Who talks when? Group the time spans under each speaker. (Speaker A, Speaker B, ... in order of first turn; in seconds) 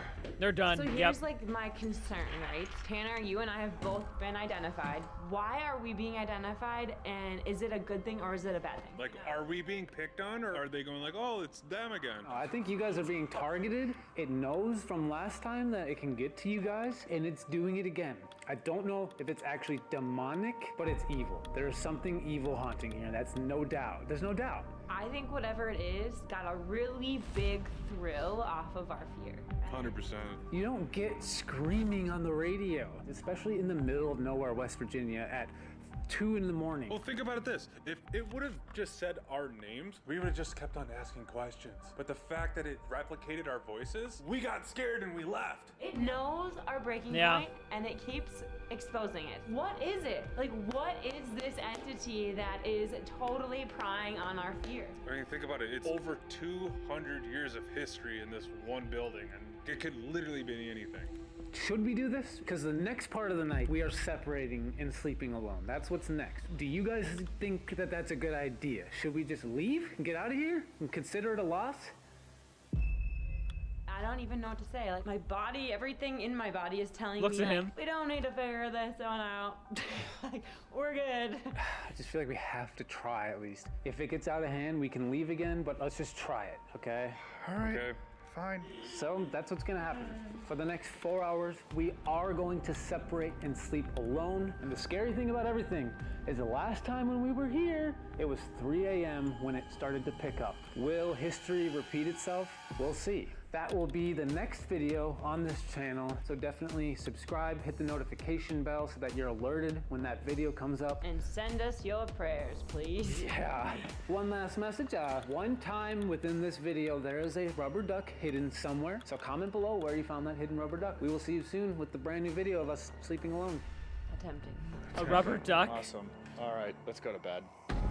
Speaker A: 0.4-1.2, 47.1-47.5, 77.2-77.7, 124.9-125.9
Speaker B: 0.7-9.2, 24.9-30.0, 45.8-55.0, 73.9-81.6, 111.0-113.2, 124.1-124.8
Speaker C: 8.9-12.3, 29.6-30.4, 36.9-45.7, 55.0-61.1, 87.6-88.0
Speaker D: 12.2-24.7, 30.5-37.0, 61.5-71.9, 81.5-87.2, 88.8-111.0, 113.1-123.7
Speaker E: 87.4-88.8, 125.0-127.5